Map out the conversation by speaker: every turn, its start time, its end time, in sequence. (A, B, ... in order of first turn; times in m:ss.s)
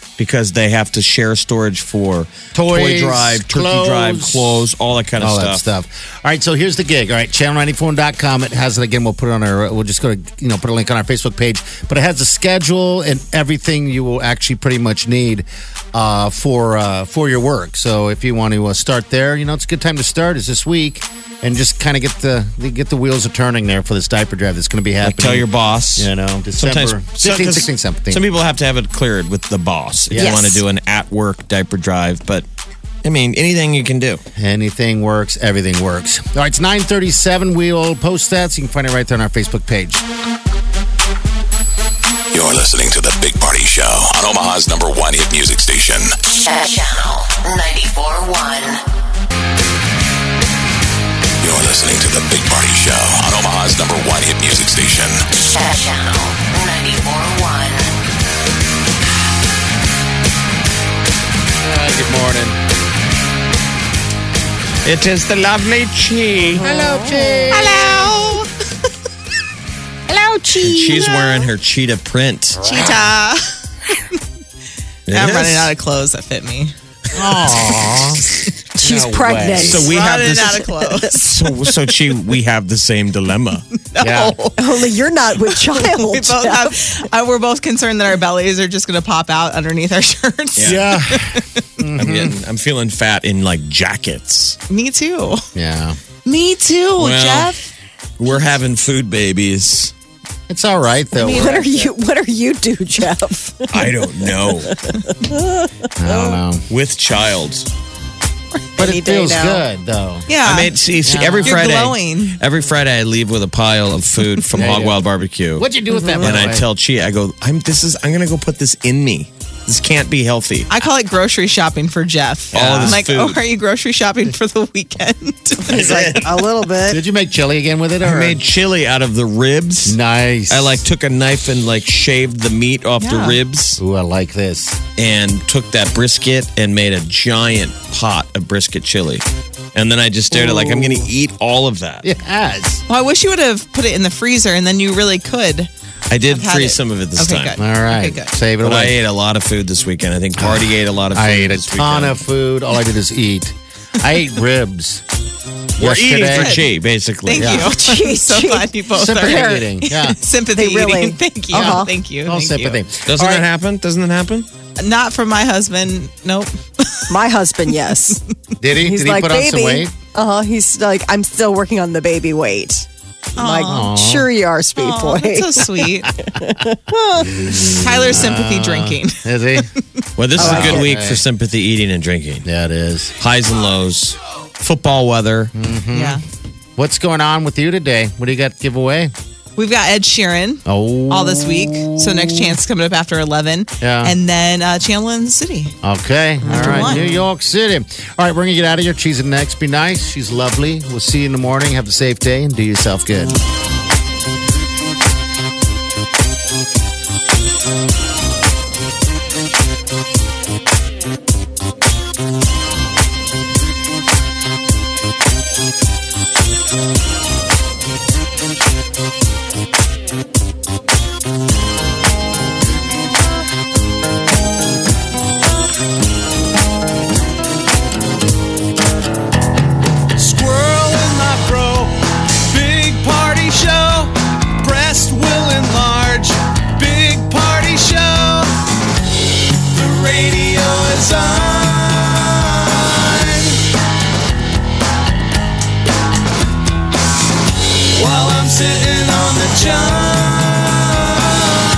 0:00.2-0:05.6 A
0:02.5-0:28.2 B
0:25.0-0:32.5 A
0:30.2-0:30.6 C
0:33.0-0:34.2 A
0:34.4-0:40.0 B
0:42.4-0:43.4 D
0:44.2-0:44.6 D
0:46.3-0:48.8 E
0:51.4-0:55.1 D
0:55.4-0:57.9 E
1:01.6-1:02.6 B
1:04.8-1:06.6 A
1:06.6-1:07.9 B
1:06.6-1:07.5 C
1:07.5-1:08.5 F
1:10.1-1:11.4 C
1:10.6-1:12.8 A
1:11.0-1:11.3 F
1:12.6-1:13.6 F
1:15.1-1:15.7 A
1:15.1-1:16.8 F
1:17.1-1:18.2 B
1:18.8-1:19.9 B
1:18.8-1:21.3 C
1:19.6-1:20.7 A
1:19.9-1:21.3 F
1:21.2-1:23.6 A
1:23.8-1:24.9 F
1:24.0-1:24.4 B
1:24.6-1:26.8 C
1:25.5-1:31.6 F
1:30.6-1:30.9 A
1:30.6-1:32.4 B
1:32.0-1:34.6 A
1:34.7-1:35.4 F
1:35.6-1:36.0 B
1:36.2-1:37.7 F
1:37.0-1:37.6 A
1:38.2-1:39.9 A
1:40.5-1:41.9 B
1:41.2-1:45.7 C
1:43.7-1:44.8 A
1:46.0-1:46.7 B
1:46.7-1:47.7 A
1:48.6-1:49.6 C
1:48.8-1:50.3 B
1:50.3-1:52.4 F
1:50.4-2:00.7 A
1:51.0-1:51.6 B
1:54.6-1:55.0 B
1:55.6-1:56.6 B
1:55.9-1:56.3 C
2:00.7-2:06.2 F
2:02.5-2:03.0 B
2:02.5-2:03.4 A
2:05.6-2:07.0 C
2:05.7-2:06.2 A
2:05.8-2:06.3 B
2:06.8-2:08.4 B
2:08.0-2:13.8 A
2:09.9-2:10.8 B
2:13.0-2:13.4 F
2:13.8-2:14.8 B
2:15.0-2:22.1 A
2:20.3-2:21.1 B
2:22.0-2:22.8 B
2:22.9-2:25.7 F
2:26.1-2:27.7 A
2:26.2-2:28.4 F
2:27.6-2:29.0 B
2:28.6-2:32.2 A
2:30.4-2:35.0 B
2:35.8-2:36.6 B
2:35.8-2:37.7 A
2:36.3-2:42.8 F
2:37.3-2:37.7 B
2:37.6-2:39.6 C
2:38.9-2:40.2 B
2:40.5-2:42.0 C
2:41.5-2:43.5 B
2:43.0-2:44.5 A
2:44.8-2:47.2 F
2:47.1-2:48.2 C
2:48.6-2:49.9 B
2:48.8-2:57.6 C
2:53.4-2:53.9 F
2:53.5-2:54.3 B
2:54.8-2:56.2 F
2:57.2-2:59.7 B
2:57.7-2:59.7 F
3:00.2-3:02.5 A
3:00.3-3:01.2 B
3:00.4-3:00.9 C
3:02.4-3:03.1 B
3:03.2-3:05.5 A
3:05.5-3:06.2 B
3:05.9-3:06.2 F
3:06.8-3:09.1 B
3:09.6-3:15.8 F
3:10.7-3:12.5 B
3:13.8-3:14.2 B
3:15.8-3:23.4 B
3:16.4-3:17.2 F
3:16.7-3:17.0 C
3:50.2-3:51.9 G
3:52.5-3:58.5 G
3:59.8-4:02.2 G
4:03.0-4:03.4 G
4:08.0-4:11.2 G